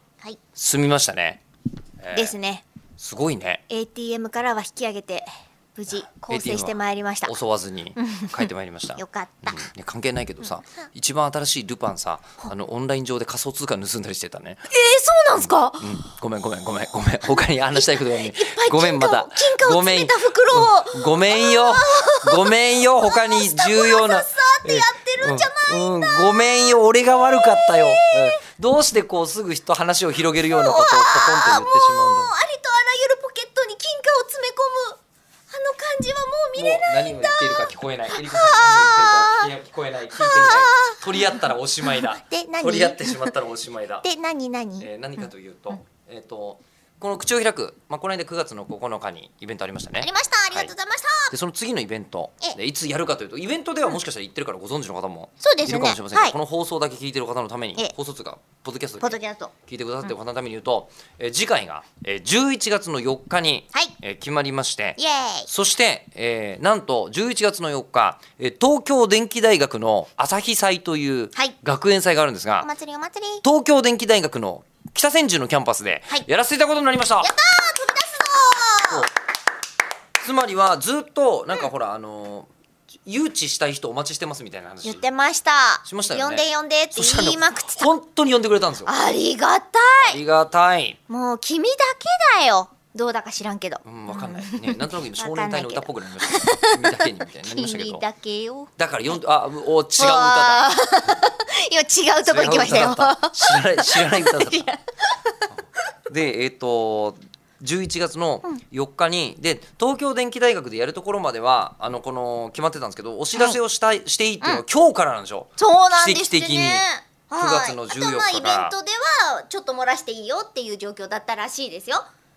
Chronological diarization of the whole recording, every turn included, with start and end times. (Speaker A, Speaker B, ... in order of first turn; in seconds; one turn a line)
Speaker A: 0.6-1.4
Speaker A: 2.0-2.4
Speaker B: 2.1-2.6
Speaker A: 3.0-3.6
Speaker B: 3.7-7.3
Speaker A: 5.9-14.6
Speaker B: 8.0-9.7
Speaker B: 14.7-16.0
Speaker A: 15.4-32.3
Speaker B: 17.7-28.4
Speaker B: 30.5-35.0
Speaker B: 35.5-39.5
Speaker A: 36.5-44.1
Speaker B: 40.1-41.0
Speaker B: 41.8-43.3
Speaker B: 44.0-44.9
Speaker A: 44.8-50.7
Speaker B: 50.0-51.3
Speaker A: 51.3-72.7
Speaker B: 55.4-56.4
Speaker B: 59.0-59.5
Speaker B: 65.0-65.5
Speaker B: 72.6-73.4
Speaker A: 73.4-77.3
Speaker B: 77.2-79.1
Speaker A: 80.2-82.5
Speaker A: 83.1-85.1
Speaker B: 84.8-87.9
Speaker A: 85.8-88.9
Speaker B: 88.9-90.2
Speaker A: 90.0-91.0
Speaker B: 91.1-98.7
Speaker A: 93.8-98.0
Speaker A: 98.8-100.6
Speaker B: 100.0-105.5
Speaker A: 102.2-104.7
Speaker A: 106.1-116.8
Speaker B: 113.3-113.6
Speaker B: 115.6-122.1
Speaker A: 117.4-118.8